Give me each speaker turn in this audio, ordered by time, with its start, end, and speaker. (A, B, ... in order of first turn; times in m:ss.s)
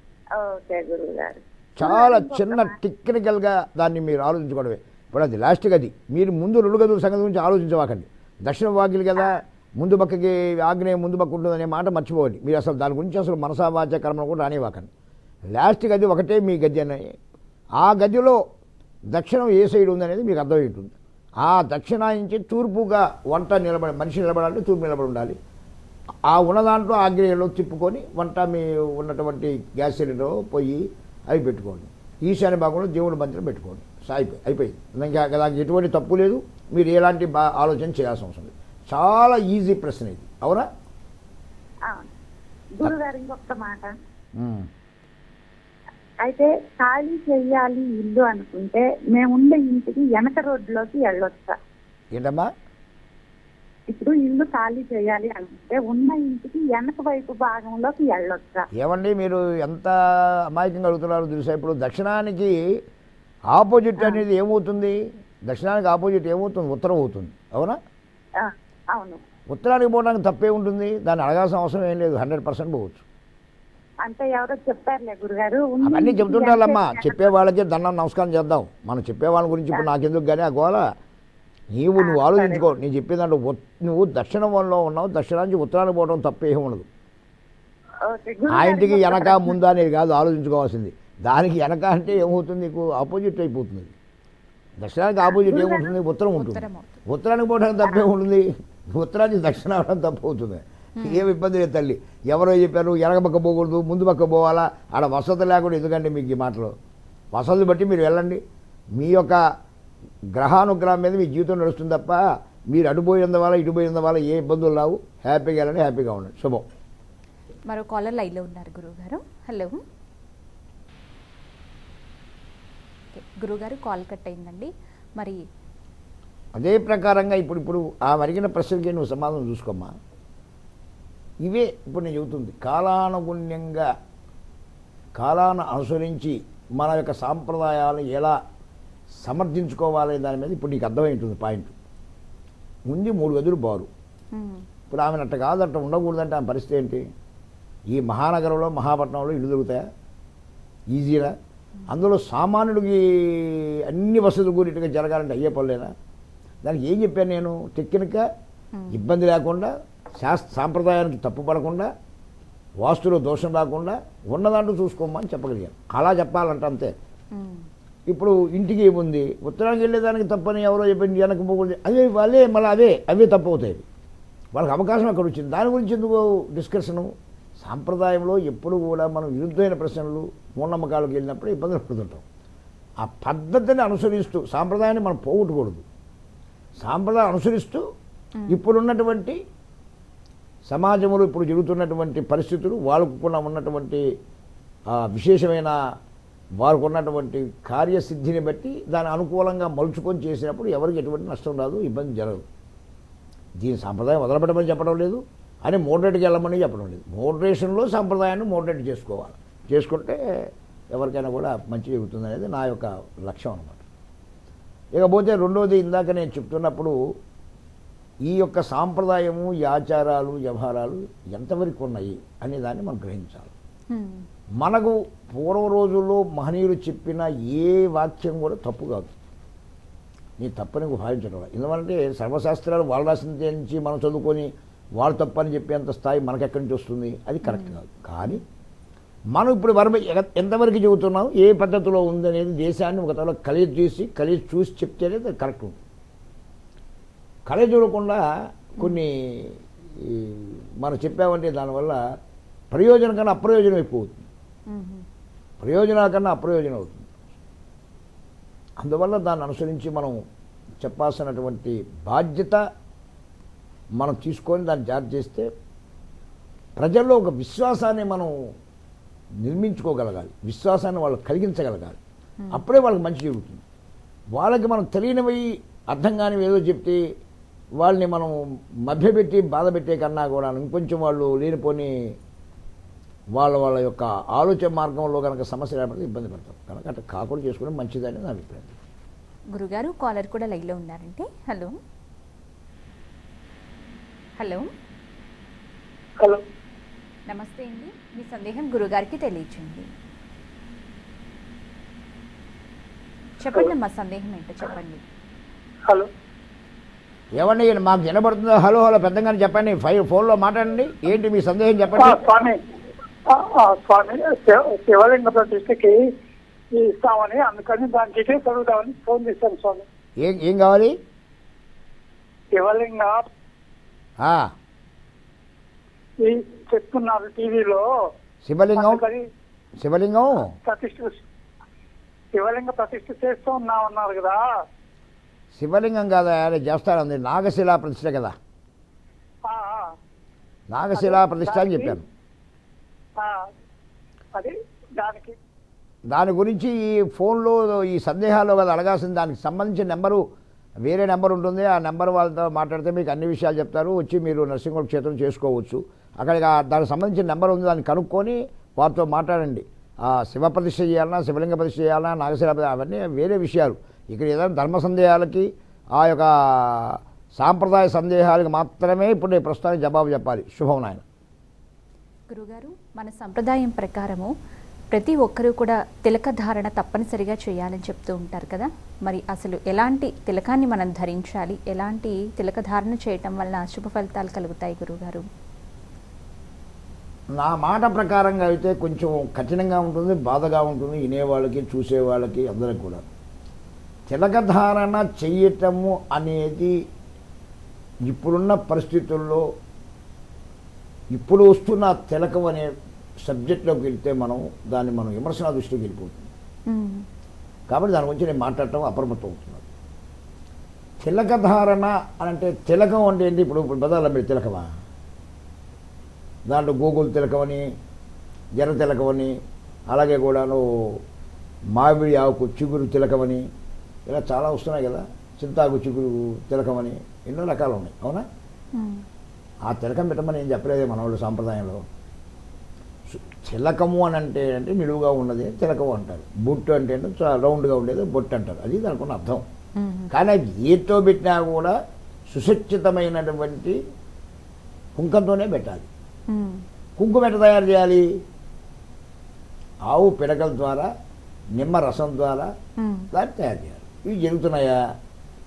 0:00.4-0:02.7 A
0:01.8-0:14.9 B
0:15.5-0:17.0 B
0:17.8-0:18.4 B
0:19.1-0:25.4 B
0:26.3-0:40.7 B
0:42.8-0:43.9 A
0:44.4-0:44.7 B
0:46.2-0:51.6 A
0:52.1-0:52.5 B
0:53.9-0:58.7 A
0:58.8-0:59.9 B
1:00.5-1:02.5 B
1:03.5-1:07.8 B
1:08.4-1:09.2 A
1:09.5-1:13.0 B
1:14.0-1:17.2 A
1:15.8-1:20.8 B
1:21.7-1:26.9 B
1:22.0-1:22.7 A
1:28.1-1:29.5 A
1:28.5-1:33.9 B
1:34.8-1:46.7 B
1:35.2-1:35.9 A
1:36.4-1:37.0 C
1:41.0-1:41.2 C
1:47.3-1:48.4 B
1:49.0-1:49.4 B
1:50.4-1:56.6 B
1:57.7-1:59.8 C
2:03.1-2:05.4 C
2:06.5-2:09.9 B
2:11.4-2:13.9 B
2:15.2-2:18.4 B
2:19.2-2:21.7 B
2:22.9-2:23.9 B
2:24.3-2:24.6 C
2:24.9-2:27.0 B
2:27.9-2:29.8 B
2:30.9-2:31.3 B
2:31.9-2:35.9 B
2:36.6-2:38.2 B
2:38.8-2:39.0 C
2:38.9-2:41.9 B
2:42.8-2:46.9 B
2:47.3-2:47.6 C
2:48.1-2:53.8 B
2:54.5-3:02.2 B
3:03.0-3:05.8 B
3:06.8-3:07.8 B
3:08.5-3:09.4 B
3:10.7-3:14.0 B
3:14.9-3:15.8 B
3:16.6-3:22.4 B
3:23.6-3:30.2 B
3:30.9-3:33.8 B
3:34.9-3:37.0 B
3:38.2-3:43.5 B
3:43.9-3:44.2 C
3:44.6-3:49.1 B
3:50.4-3:58.4 B
3:57.4-3:57.7 C
3:59.3-4:05.8 B
4:07.5-4:08.2 B
4:08.7-4:12.0 B
4:12.7-4:14.2 B
4:14.7-4:15.0 C
4:15.6-4:17.2 B
4:18.8-4:20.2 B
4:20.8-4:22.6 B
4:24.0-4:25.5 B
4:26.8-4:28.3 B
4:29.4-4:32.0 B
4:32.5-4:33.6 B
4:34.4-4:37.0 B
4:37.8-4:41.9 B
4:43.4-4:48.8 B
4:49.5-4:51.8 C
4:54.4-4:54.7 C
4:57.3-4:59.9 C
5:03.4-5:05.0 C
5:07.4-5:12.2 B
5:12.0-5:12.6 D
5:13.3-5:16.0 D
5:16.7-5:19.8 D
5:20.2-5:21.0 B
5:22.5-5:23.2 D
5:24.2-5:24.5 B
5:26.2-5:27.8 D
5:28.4-5:29.0 B
5:28.8-5:29.2 D
5:29.8-5:30.5 B
5:30.5-5:31.2 D
5:32.3-5:34.4 D
5:35.5-5:38.3 B
5:39.4-5:39.9 D
5:40.7-5:42.0 B
5:41.0-5:42.0 D
5:43.2-5:43.5 D
5:44.3-5:45.4 D
5:46.1-5:50.2 B
5:50.8-6:11.0 B
6:12.3-6:14.3 C
6:14.9-6:25.2 C
6:27.3-6:33.1 B
6:34.1-6:36.8 B
6:38.1-6:39.4 B
6:41.1-6:42.7 B
6:43.2-6:46.3 B
6:46.7-6:47.0 C
6:47.7-6:49.6 B
6:51.0-6:54.7 B
6:56.5-6:57.6 B
6:58.6-6:59.3 B
6:59.9-7:01.0 B
7:01.7-7:03.4 B
7:04.0-7:08.2 B
7:08.8-7:09.0 C
7:09.6-7:11.8 B
7:13.1-7:19.4 B
7:19.8-7:20.1 C
7:20.1-7:21.7 B
7:22.3-7:23.8 B
7:25.0-7:25.9 B
7:26.3-7:26.6 C
7:27.0-7:28.1 B
7:29.9-7:30.9 B
7:31.6-7:32.5 B
7:32.8-7:33.1 C
7:33.1-7:34.8 B